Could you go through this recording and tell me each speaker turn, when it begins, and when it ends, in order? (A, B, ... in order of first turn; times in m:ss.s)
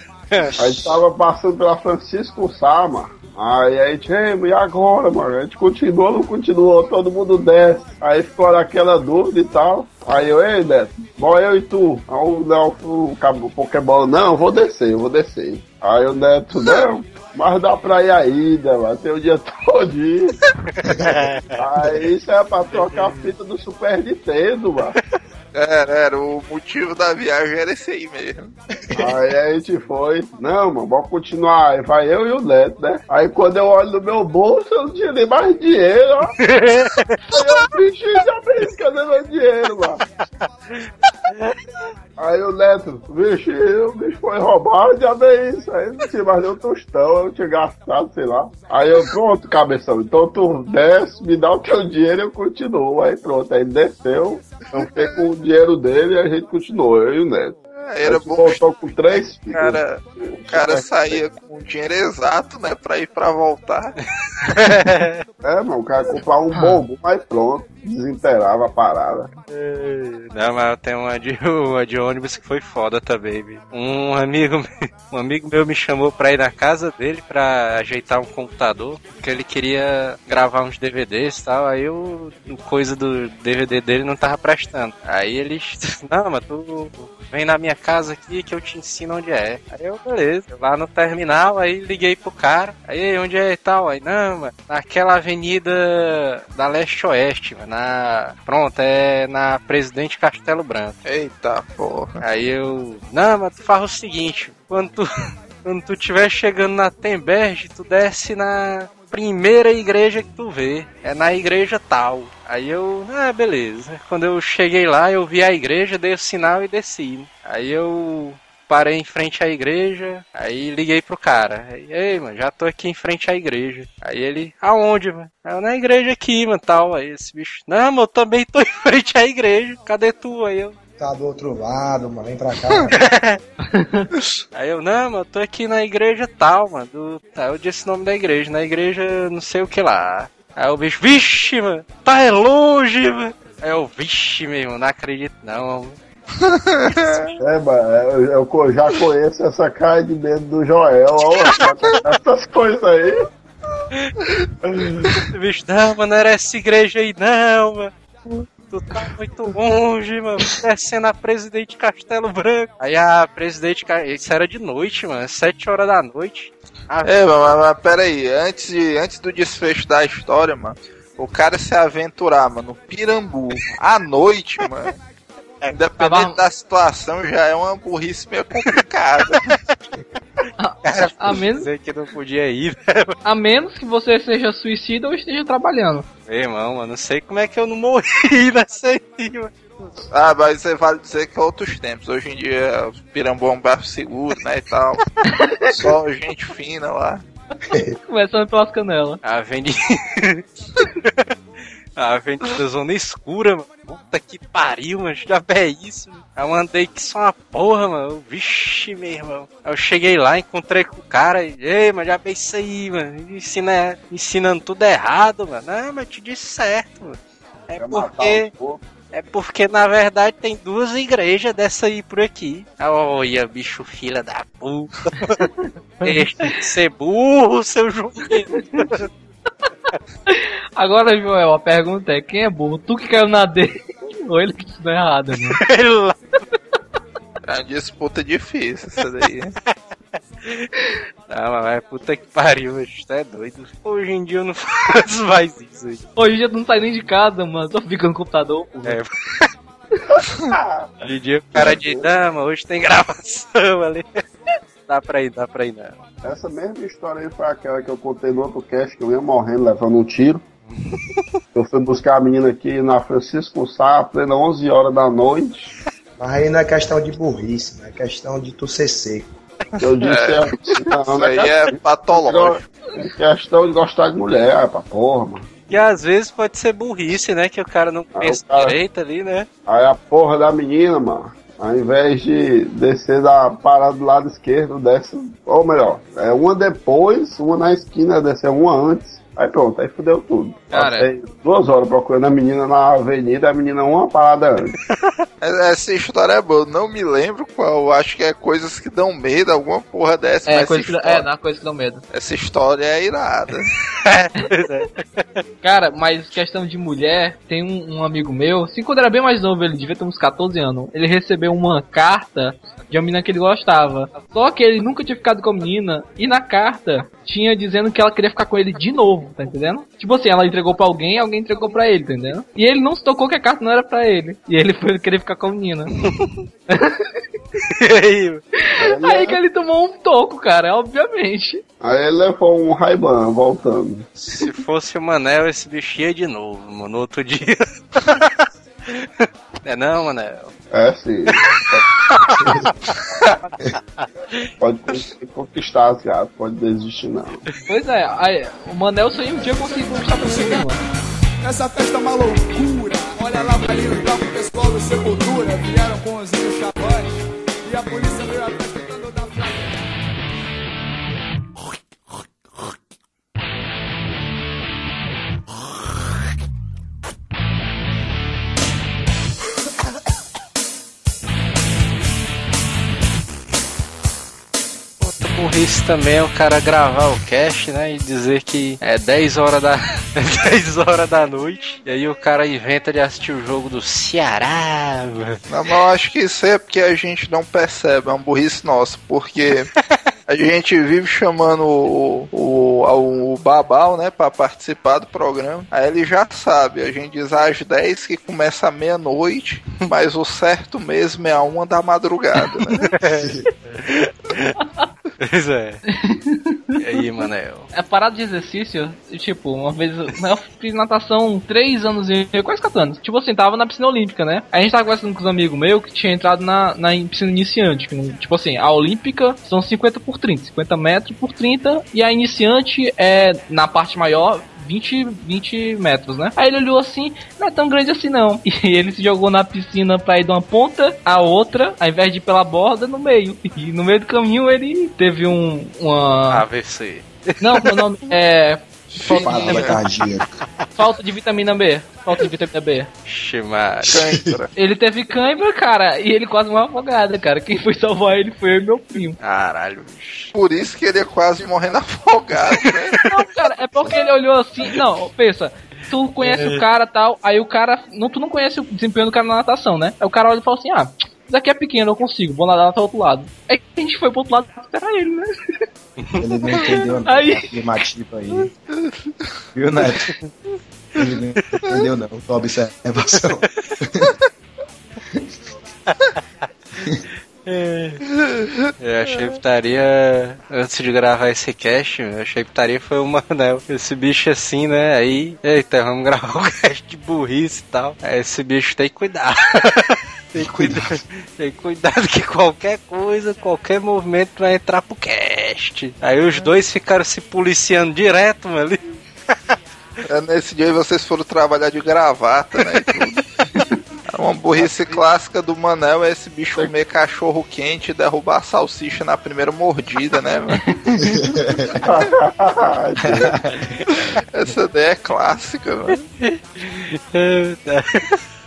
0:00.3-0:00.6 A
0:00.6-0:20.4 B
0:20.8-0:21.2 C
0:21.0-0:21.6 A
0:21.6-0:25.0 B
0:22.8-0:23.2 A
0:25.5-0:28.5 D
0:28.9-0:29.2 C
0:29.0-0:36.4 B
0:36.4-0:37.2 A
0:37.3-0:40.0 B
0:40.4-0:41.6 A
0:42.2-1:01.2 B
0:54.8-0:55.2 D
0:57.9-0:58.7 D
0:59.5-1:04.0 D
1:04.5-1:05.2 A
1:05.4-1:09.3 B
1:06.5-1:06.8 E
1:09.5-1:41.0 A
1:41.0-1:42.2 D
1:42.2-1:45.1 A
1:45.6-2:10.8 A
2:11.0-2:13.1 C
2:13.0-2:13.4 A
2:13.6-2:14.1 E
2:14.5-2:26.0 A
2:26.4-2:27.3 D
2:27.0-2:27.3 A
2:27.4-2:33.2 B
2:34.6-2:35.3 B
2:35.3-2:47.2 A
2:47.0-2:55.0 D
2:55.7-2:59.6 D
2:56.0-2:56.4 E
3:00.6-3:01.7 E
3:00.8-3:03.2 A
3:03.2-3:06.1 E
3:06.3-3:09.9 A
3:10.1-3:15.0 D
3:15.3-3:15.7 E
3:15.7-3:17.2 D
3:17.7-3:18.0 C
3:18.1-3:19.2 E
3:19.2-3:20.4 A
3:21.0-3:21.3 A
3:22.0-3:38.5 A
3:37.8-3:38.8 B
3:39.1-3:45.5 A
3:45.4-3:46.6 E
3:46.0-3:49.1 A
3:49.9-3:55.6 E
3:55.3-3:56.2 A
3:57.4-3:59.6 D
4:01.3-4:06.0 A
4:06.2-4:09.0 E
4:08.8-4:09.5 A
4:10.2-4:10.9 B
4:11.0-4:14.2 A
4:11.6-4:12.1 B
4:14.9-4:16.0 A
4:16.2-4:20.4 B
4:21.5-4:25.7 B
4:26.2-4:29.4 C
4:29.8-4:35.5 B
4:30.0-4:30.5 D
4:31.0-4:32.6 D
4:35.7-4:39.5 A
4:38.2-4:38.8 B
4:39.7-4:54.8 B
4:50.7-4:51.1 E
4:54.9-4:55.2 A
4:55.4-5:01.3 D
5:00.5-5:02.0 E
5:02.1-5:03.7 D
5:04.0-5:05.4 A
5:05.6-5:25.9 E
5:26.7-5:27.2 E
5:27.7-5:28.4 A
5:28.7-5:31.6 E
5:28.8-5:29.4 B
5:31.8-5:34.1 B
5:34.2-5:40.5 A
5:40.7-5:41.8 B
5:42.1-5:42.9 A
5:42.4-5:42.7 C
5:44.0-5:44.5 A
5:44.6-5:47.4 B
5:47.7-5:50.8 E
5:50.2-5:50.7 F
5:51.4-5:59.7 F
6:15.0-6:25.4 A
6:25.5-6:29.7 D
6:30.3-6:42.9 D
6:42.9-6:44.6 A
6:43.2-6:43.5 C
6:44.6-6:44.9 E
6:45.2-6:45.8 A
6:45.9-6:46.8 E
6:46.8-6:47.7 A
6:47.7-7:16.4 E
7:16.3-7:17.8 A
7:17.4-7:19.7 E
7:19.0-7:19.8 D
7:19.0-7:20.3 C
7:20.8-7:22.9 E
7:23.1-7:24.0 A
7:23.9-7:24.5 D
7:23.9-7:24.2 C
7:24.6-7:29.2 E
7:29.2-7:30.3 A
7:30.3-7:33.0 D
7:32.5-7:33.0 A
7:33.0-7:45.6 E
7:36.2-7:36.6 A
7:46.2-7:48.5 C
7:47.1-7:47.5 E
7:49.6-7:50.1 C
7:51.0-7:54.1 C
7:57.4-7:58.0 A
7:58.2-7:58.7 D
7:58.8-8:18.8 A
8:10.4-8:11.0 C
8:20.1-8:23.2 D
8:24.1-8:30.7 D
8:24.6-8:25.0 B
8:31.0-8:31.8 C
8:31.8-8:33.3 B
8:33.1-8:33.8 C
8:33.9-8:36.0 D
8:35.9-8:38.2 A